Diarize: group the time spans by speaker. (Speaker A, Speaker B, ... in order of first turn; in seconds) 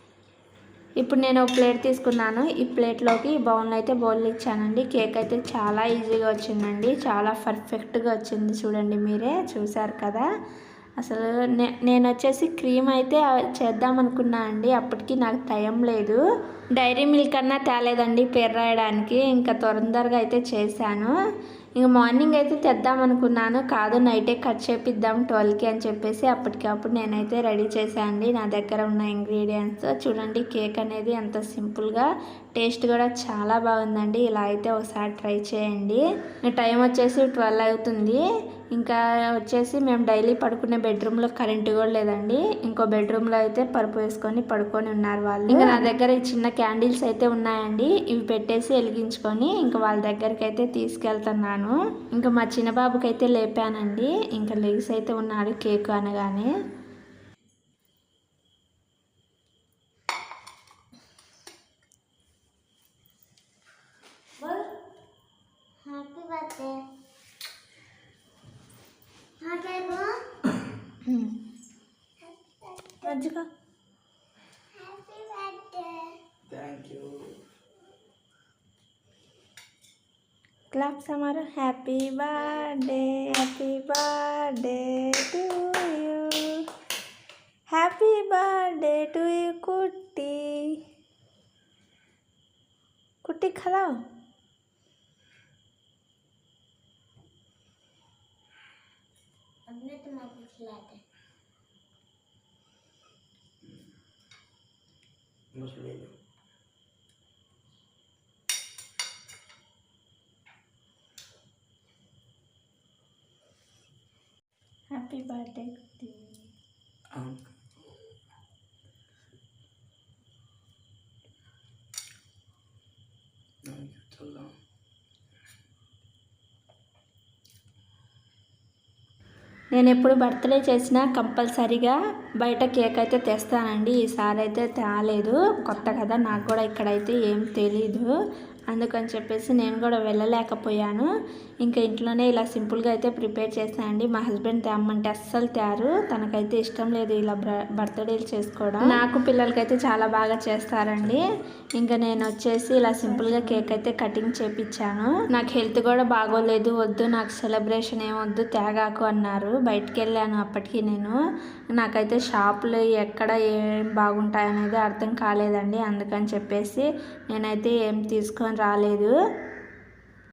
Speaker A: 1.0-10.2, 11.0-16.2, 16.8-21.1, 21.8-38.2, 38.8-56.5, 71.1-71.3, 73.0-73.5, 80.7-86.6, 87.7-90.7, 93.2-93.9, 114.9-116.4, 129.7-138.1, 138.7-141.1, 141.6-151.2, 151.8-161.2, 161.7-169.1
Speaker B: 45.5-45.8, 76.5-77.4, 105.5-106.1, 117.1-117.4, 123.7-124.5
Speaker C: 64.4-64.7, 65.8-66.8, 69.4-70.2, 72.2-73.2, 74.8-76.2, 99.7-101.0